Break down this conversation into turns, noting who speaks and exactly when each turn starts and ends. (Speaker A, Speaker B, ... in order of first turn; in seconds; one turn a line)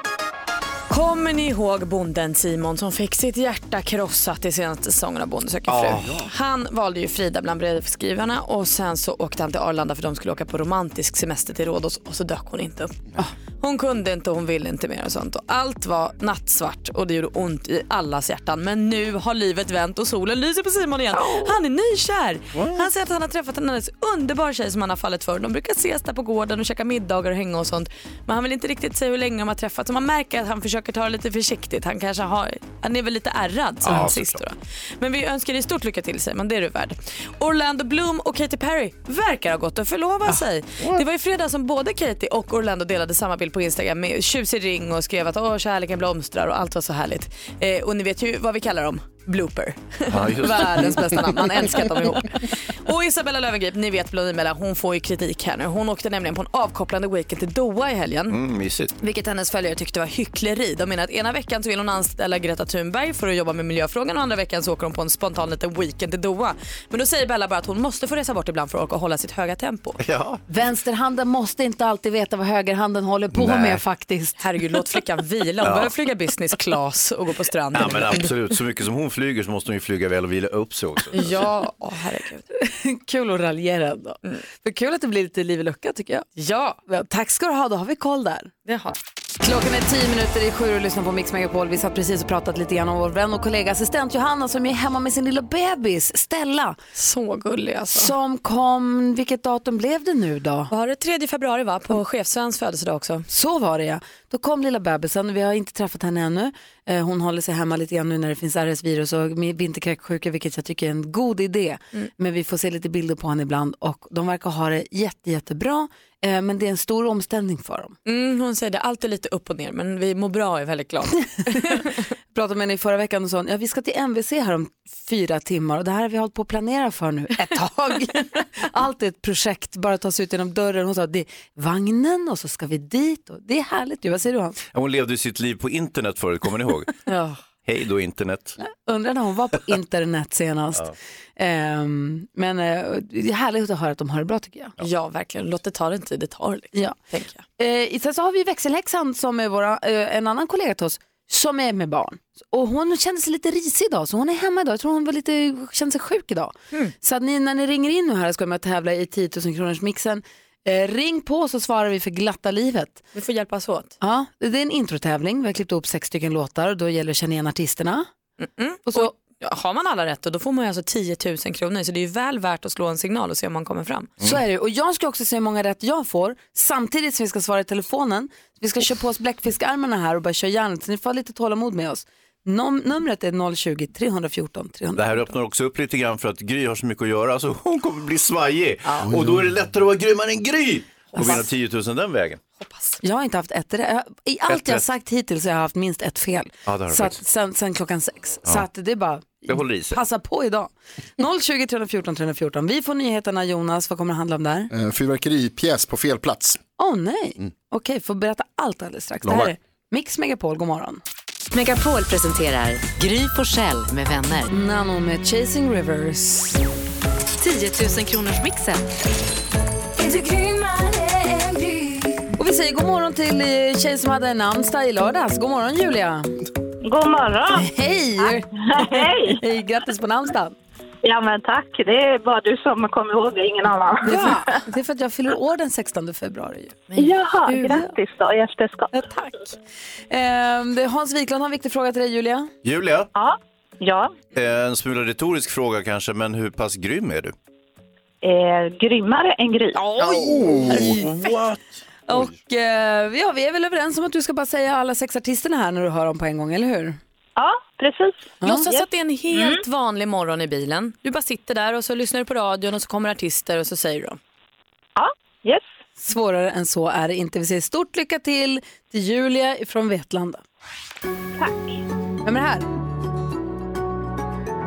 Speaker A: 0.9-13.0
Speaker B: 5.7-6.1
Speaker A: 13.6-58.4
Speaker B: 22.5-22.9
Speaker B: 33.8-34.4
Speaker B: 50.1-51.3
Speaker B: 58.3-58.9
Speaker A: 59.0-70.0
Speaker B: 70.0-70.4
Speaker C: 70.5-74.4
Speaker B: 73.3-73.8
Speaker A: 74.4-78.3
Speaker B: 75.6-75.9
Speaker B: 77.7-81.5
Speaker A: 81.1-82.5
Speaker C: 82.5-86.3
Speaker A: 86.4-86.8
Speaker C: 86.8-88.5
Speaker A: 88.7-89.0
Speaker C: 89.4-96.8
Speaker A: 97.0-98.1
Speaker C: 97.9-100.7
Speaker A: 100.7-103.2
Speaker C: 103.3-117.9
Speaker A: 118.0-122.0
Speaker C: 121.5-134.6
Speaker B: 134.7-136.9
Speaker B: 137.6-138.6
Speaker C: 138.6-144.8
Speaker A: 144.8-147.4
Speaker C: 147.6-163.0
Speaker A: 163.1-163.9
Speaker C: 164.0-168.1
Speaker A: 168.4-174.1
Speaker C: 168.9-169.1
Speaker C: 174.2-185.3
Speaker B: 184.9-192.4
Speaker D: 189.1-189.4
Speaker A: 191.1-191.4
Speaker A: 192.6-193.0
Speaker C: 193.0-204.7
Speaker B: 194.5-194.8
Speaker B: 196.7-197.2
Speaker B: 199.5-200.0
Speaker D: 204.7-206.6
Speaker C: 206.8-211.0
Speaker D: 209.2-209.5
Speaker E: 211.5-214.5
Speaker C: 214.5-216.6
Speaker E: 217.4-218.9
Speaker C: 220.0-221.6
Speaker C: 222.3-226.3
Speaker F: 226.8-227.7
Speaker C: 227.5-230.5
Speaker F: 228.7-229.4
Speaker F: 231.0-234.6
Speaker C: 234.0-237.9
Speaker F: 236.9-239.0
Speaker C: 238.9-239.4
Speaker C: 240.1-242.5
Speaker B: 242.6-243.1
Speaker F: 243.1-244.1
Speaker B: 244.3-247.3
Speaker F: 248.2-249.9
Speaker C: 249.7-251.1
Speaker D: 250.1-250.9
Speaker B: 250.7-251.6
Speaker C: 252.1-257.0
Speaker F: 257.4-259.6
Speaker A: 258.4-264.2
Speaker F: 264.9-265.6
Speaker C: 266.0-270.4
Speaker F: 271.4-271.8
Speaker C: 272.2-272.6